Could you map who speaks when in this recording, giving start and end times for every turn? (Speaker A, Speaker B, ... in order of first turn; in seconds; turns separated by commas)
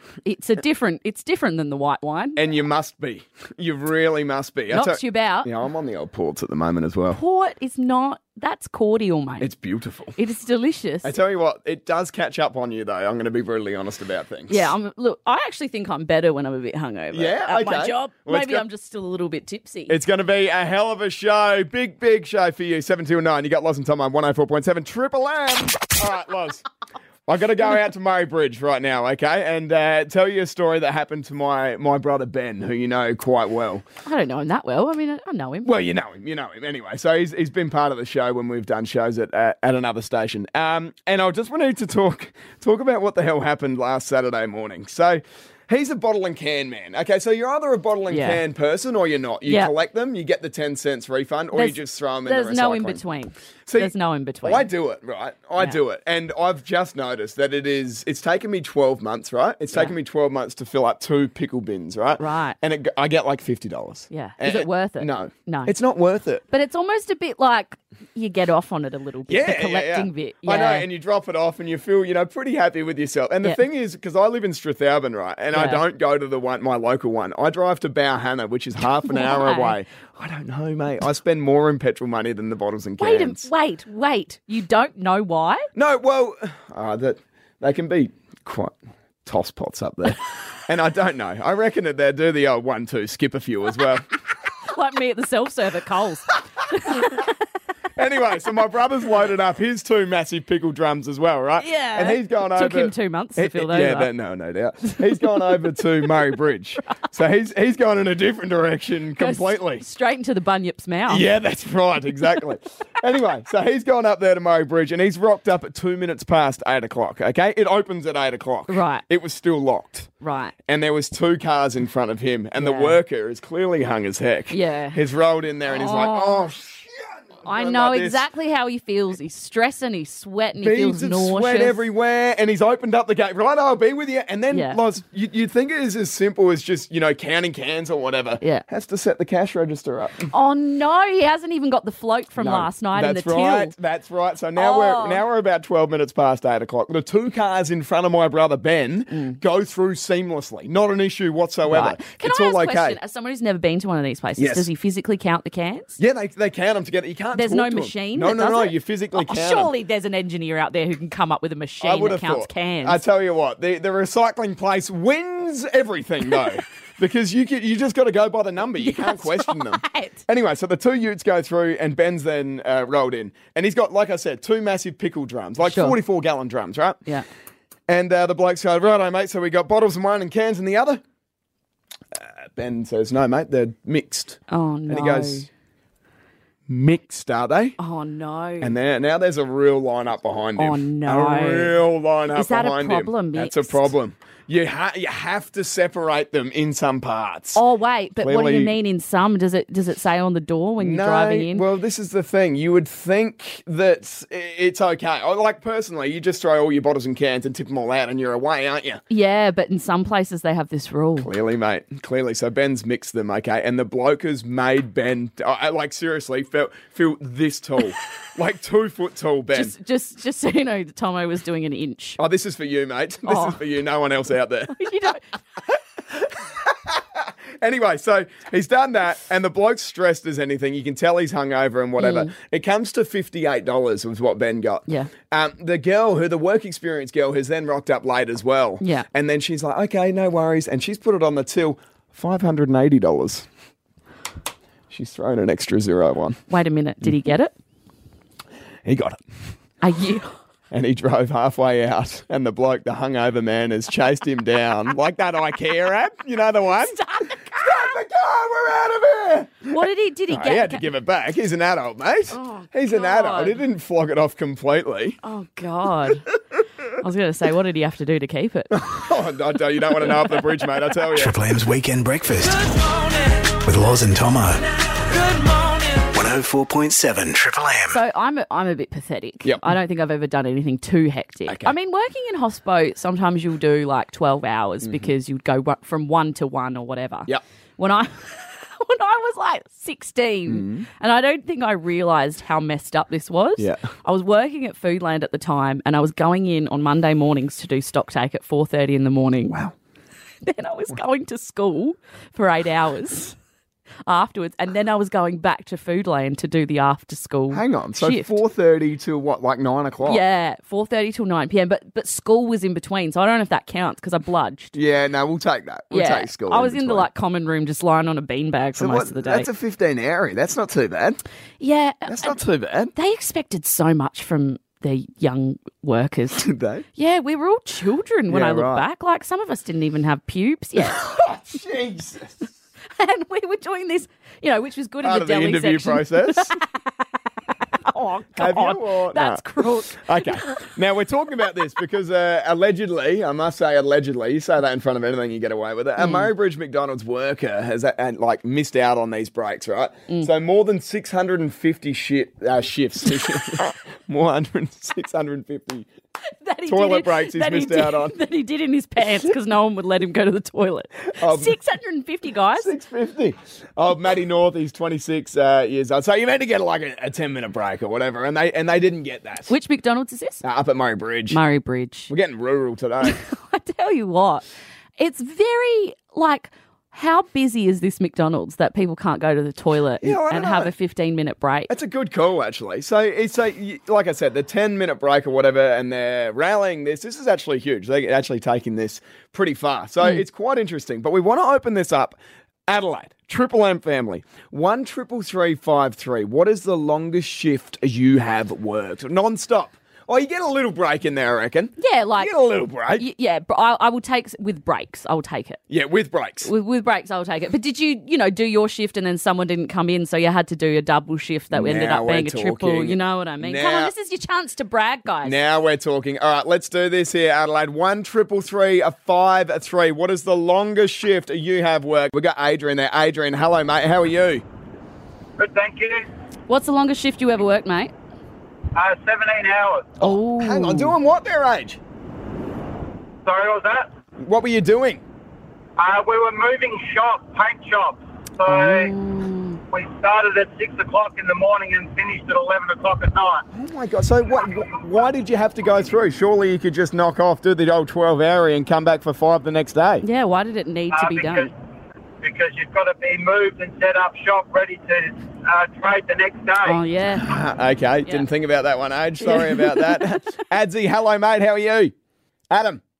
Speaker A: 0.2-2.4, Speaker B: 2.4-7.2, Speaker A: 4.7-5.5, Speaker A: 7.1-9.5, Speaker B: 9.4-10.1, Speaker A: 10.2-11.1, Speaker B: 11.0-14.7, Speaker A: 14.5-20.0, Speaker B: 17.1-18.6, Speaker B: 19.9-26.6, Speaker B: 27.3-33.8, Speaker A: 34.0-35.8, Speaker B: 35.6-53.0, Speaker A: 48.1-48.4, Speaker A: 49.5-49.7, Speaker A: 51.5-54.7, Speaker B: 53.7-66.4, Speaker A: 62.2-62.6, Speaker A: 64.1-65.7, Speaker A: 66.5-70.9, Speaker B: 69.3-83.5, Speaker A: 75.5-75.8, Speaker A: 79.0-79.8, Speaker A: 83.0-85.7, Speaker B: 85.7-94.0, Speaker A: 94.7-97.3, Speaker B: 98.0-109.8, Speaker A: 101.6-104.1, Speaker A: 104.8-105.8, Speaker A: 109.2-111.2, Speaker B: 111.1-120.1, Speaker A: 118.7-119.0, Speaker A: 120.2-120.5, Speaker B: 120.7-128.2, Speaker A: 122.6-123.0, Speaker A: 124.5-125.0, Speaker A: 125.7-126.5, Speaker A: 127.4-131.8, Speaker B: 130.6-140.3, Speaker A: 134.5-134.8, Speaker A: 140.3-143.7, Speaker B: 142.4-153.0, Speaker A: 144.6-145.2, Speaker A: 149.1-149.4, Speaker A: 151.7-156.0, Speaker B: 154.4-154.7, Speaker B: 156.0-159.7, Speaker A: 157.3-163.0, Speaker B: 161.8-177.0, Speaker A: 168.8-170.2, Speaker A: 175.6-176.0, Speaker B: 177.9-181.0, Speaker B: 182.1-185.5, Speaker A: 184.5-185.5, Speaker B: 186.7-187.8, Speaker A: 187.8-188.7, Speaker B: 188.6-197.6, Speaker A: 190.6-191.8, Speaker A: 192.3-193.9, Speaker A: 197.5-201.7, Speaker B: 198.2-198.7, Speaker B: 200.8-209.0, Speaker A: 209.1-211.3, Speaker B: 211.2-219.7, Speaker A: 219.5-222.2, Speaker B: 222.2-224.7, Speaker A: 223.2-223.6, Speaker A: 224.7-225.2, Speaker B: 226.1-243.5, Speaker A: 232.0-232.3, Speaker A: 238.8-239.1, Speaker B: 244.9-246.4, Speaker A: 246.5-247.5, Speaker B: 248.8-249.2, Speaker A: 249.8-250.3, Speaker B: 250.7-257.0, Speaker A: 256.7-257.9, Speaker B: 257.6-265.2, Speaker A: 259.7-260.9, Speaker A: 262.3-263.6, Speaker A: 265.2-266.3, Speaker A: 267.0-269.0, Speaker B: 268.7-271.3, Speaker A: 269.9-270.4, Speaker C: 271.1-272.7, Speaker A: 272.5-273.4, Speaker C: 273.6-274.6, Speaker A: 275.1-276.0, Speaker C: 276.1-278.0, Speaker A: 277.9-299.6, Speaker B: 281.4-281.7, Speaker B: 284.8-285.1, Speaker B: 290.5-290.9, Speaker B: 293.6-293.9, Speaker B: 299.4-299.7, Speaker A: 300.4-303.3, Speaker A: 304.1-308.4, Speaker B: 307.5-310.2, Speaker A: 310.0-314.8, Speaker B: 314.7-317.1, Speaker A: 315.9-319.5, Speaker B: 318.8-321.2, Speaker A: 321.6-322.4, Speaker B: 322.1-322.9, Speaker A: 322.9-331.1, Speaker B: 326.4-326.8, Speaker B: 328.3-328.8, Speaker B: 330.8-332.5, Speaker A: 332.9-336.8, Speaker B: 335.0-336.6, Speaker A: 337.8-340.7, Speaker B: 338.3-355.9, Speaker A: 346.0-346.3, Speaker A: 356.4-362.7, Speaker B: 356.7-358.2, Speaker B: 361.2-361.6, Speaker B: 362.5-369.5, Speaker A: 369.5-370.4, Speaker B: 370.4-371.4, Speaker A: 371.3-372.1, Speaker B: 372.1-373.2, Speaker A: 373.0-374.4, Speaker A: 375.0-381.7, Speaker B: 380.0-380.7, Speaker B: 381.7-403.1, Speaker A: 401.8-402.3, Speaker A: 402.9-405.6, Speaker B: 405.7-406.5, Speaker A: 406.4-415.4, Speaker B: 411.5-413.9, Speaker B: 415.2-424.4, Speaker D: 425.4-426.1, Speaker A: 426.5-427.9, Speaker D: 428.8-429.9, Speaker A: 430.0-430.9, Speaker B: 430.4-431.8, Speaker D: 433.2-433.9, Speaker B: 434.2-435.0, Speaker D: 435.8-438.9, Speaker A: 438.4-439.6, Speaker D: 439.7-443.4, Speaker B: 443.5-450.0, Speaker A: 450.0-451.5, Speaker D: 450.9-451.5, Speaker D: 452.2-456.8, Speaker A: 456.6-457.3, Speaker B: 457.1-461.9, Speaker A: 459.2-460.3, Speaker B: 462.5-462.8